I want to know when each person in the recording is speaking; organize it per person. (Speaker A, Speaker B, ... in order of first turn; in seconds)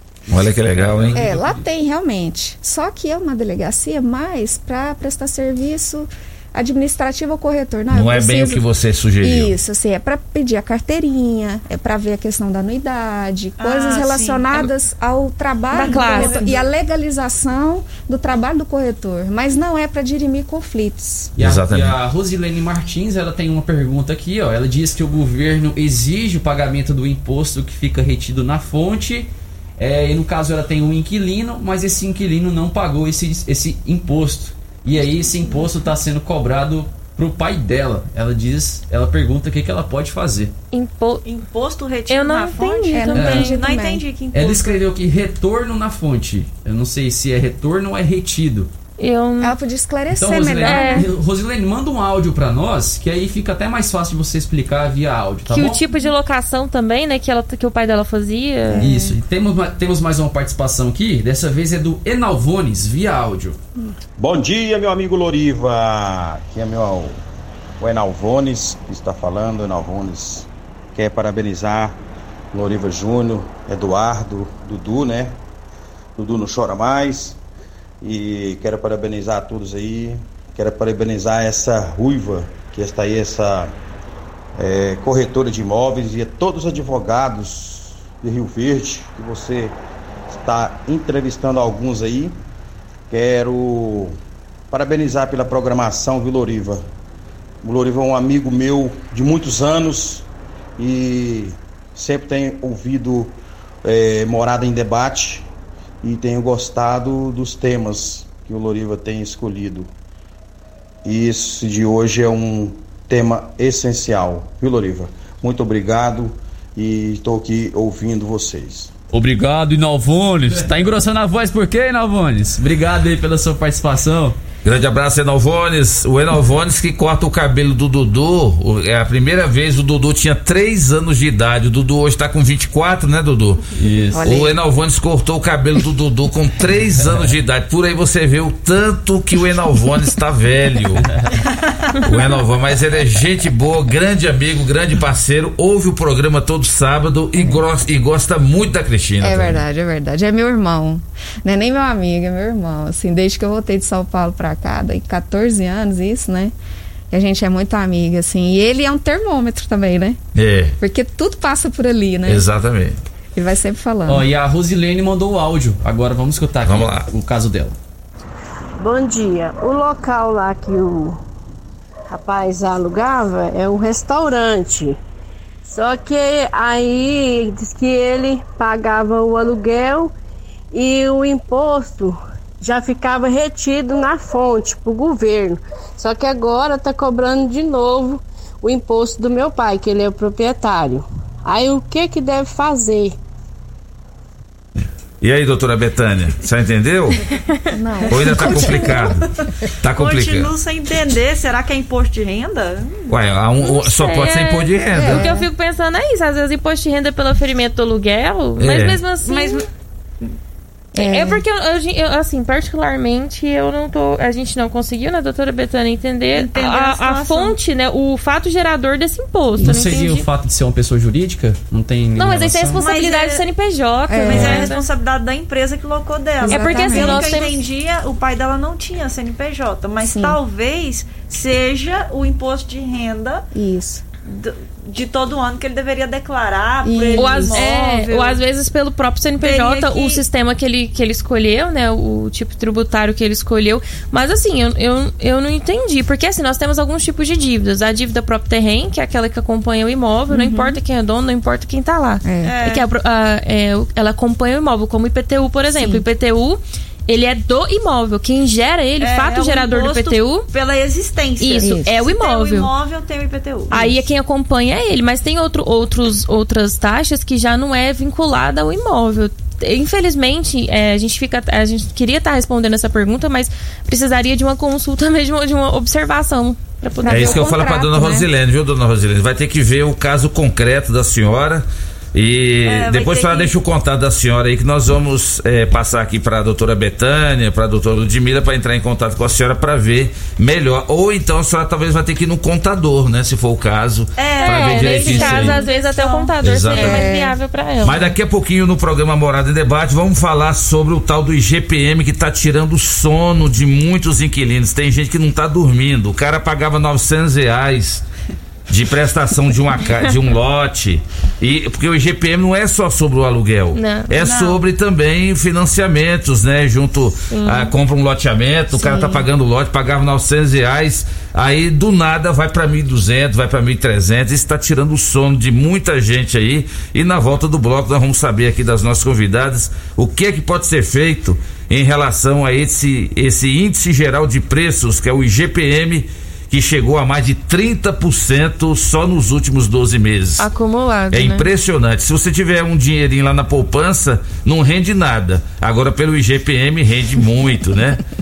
Speaker A: 0.3-1.2, 7.9-9.5, 21.4-21.9, 124.6-141.1, 142.0-149.6, 160.3-160.8, 162.2-163.0, 166.6-167.1, 194.8-197.2, 198.1-199.3, 199.8-200.5, 203.1-205.3, 208.6-209.0, 277.1-295.6, 296.4-297.1, 297.8-308.0, 308.7-340.4, 341.1-348.0
Speaker B: 0.7-1.6, 21.4-40.5, 43.1-43.5, 44.3-48.7, 50.1-55.8, 58.7-63.6, 119.1-124.4, 133.8-134.3, 164.1-167.8, 219.6-222.8
Speaker C: 1.1-8.6, 9.2-21.3, 42.9-44.0, 49.4-51.1, 58.7-59.1, 134.1-134.5, 147.4-147.6, 149.2-156.5, 157.1-160.2, 160.8-162.5, 163.3-164.2, 197.7-199.2, 204.9-205.5, 210.9-211.4, 219.6-219.9, 224.1-224.7, 226.4-227.4, 230.0-230.4, 233.5-234.0, 236.8-237.7, 250.3-250.8, 252.2-252.6, 255.7-256.0, 261.6-261.9, 277.0-278.3, 296.7-297.4, 318.7-319.2
Speaker D: 13.6-14.6, 15.7-16.6, 41.2-44.8, 199.9-203.0, 209.2-209.7, 216.3-217.6, 222.8-223.4, 224.2-233.5, 234.3-238.4, 239.4-240.2, 252.4-252.8, 259.0-263.9, 282.6-283.5, 294.2-296.3, 314.2-314.6
Speaker E: 15.7-16.4, 40.7-41.2, 42.1-43.6, 49.0-49.5, 50.6-51.1, 55.5-59.0, 203.6-209.7, 210.9-220.2, 222.2-224.8, 226.4-227.6, 237.2-260.5, 261.4-262.7, 263.7-277.4, 294.4-298.1, 313.7-314.1, 317.3-317.7, 340.4-341.5
Speaker F: 64.2-67.2, 67.8-72.0, 72.5-75.4, 76.2-77.4, 78.0-83.8, 84.6-89.8, 90.3-92.3, 93.1-94.2, 94.7-96.8, 97.6-100.2, 100.8-105.5, 106.0-109.9, 111.0-118.9
Speaker G: 168.8-171.2, 172.1-175.0, 175.6-180.1, 180.7-193.1